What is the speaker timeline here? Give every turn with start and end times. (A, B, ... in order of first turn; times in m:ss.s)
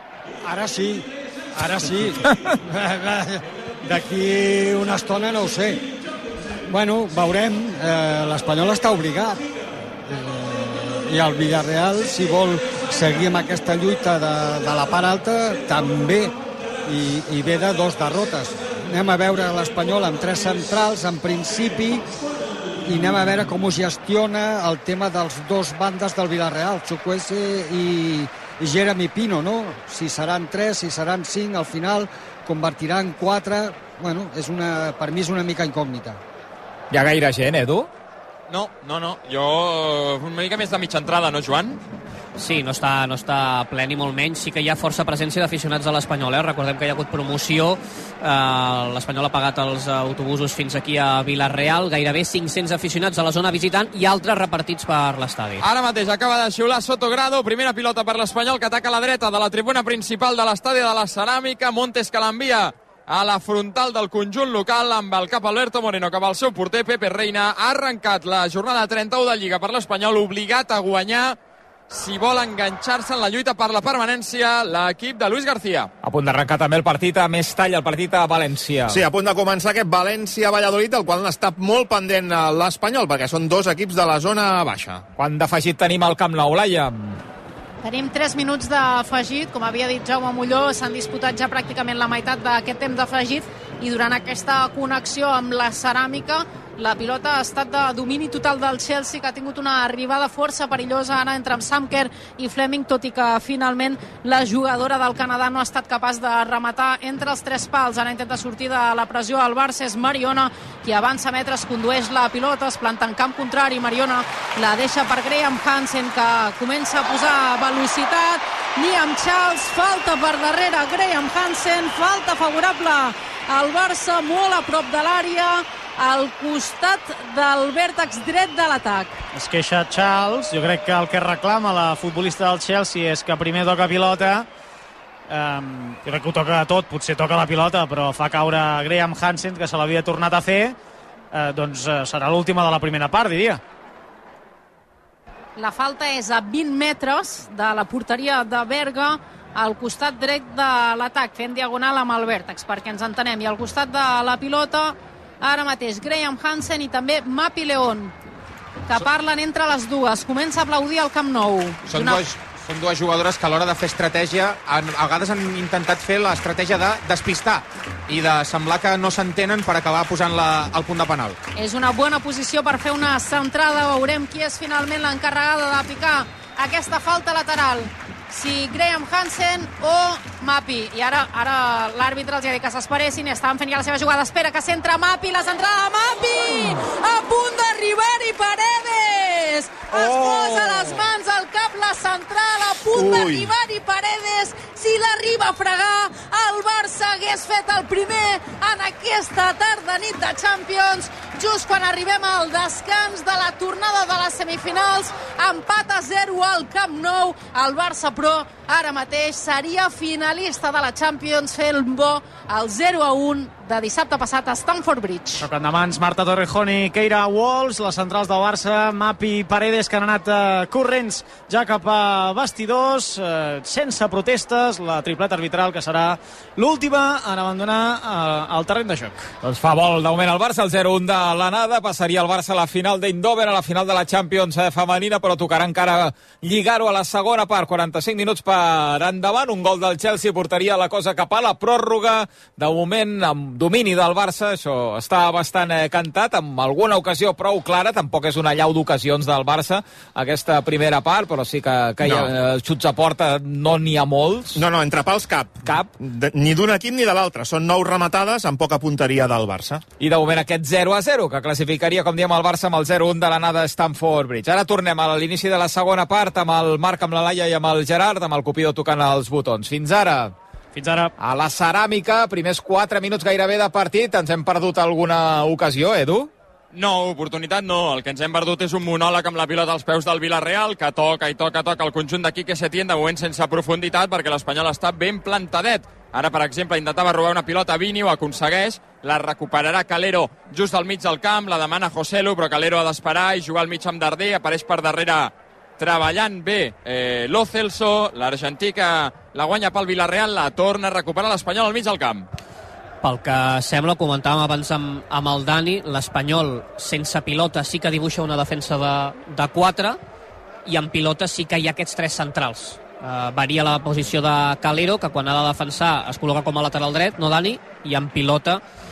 0:00.4-0:05.9 A
0:06.7-0:09.4 A
0:10.0-0:22.1 A
0:22.8-0:36.2 A
0:36.9-0:37.9 B
0:38.5-0:41.8 C
0:42.4-0:55.6 D
0:55.6-1:11.4 C
1:11.9-1:15.9 C
1:16.0-1:19.0 B
1:18.9-1:25.0 E
1:25.2-1:27.2 B
1:27.8-2:09.2 F
2:09.3-2:14.5 G
2:15.3-2:20.8 G
2:21.3-2:23.6 G
2:25.6-2:38.1 F
2:38.9-2:42.2 F
2:41.8-2:51.4 H
2:51.6-3:35.5 F
3:10.0-3:11.0 E
3:12.9-3:13.5 E
3:35.4-3:49.3 G
3:49.4-4:14.6 B
4:12.0-4:12.3 E
4:14.5-4:19.8 E
4:15.6-4:15.9 B
4:20.0-4:30.3 B
4:30.7-4:31.1 G
4:31.2-4:36.3 B
4:36.7-5:02.3 C
5:03.0-5:10.0 D
5:10.6-5:18.6 D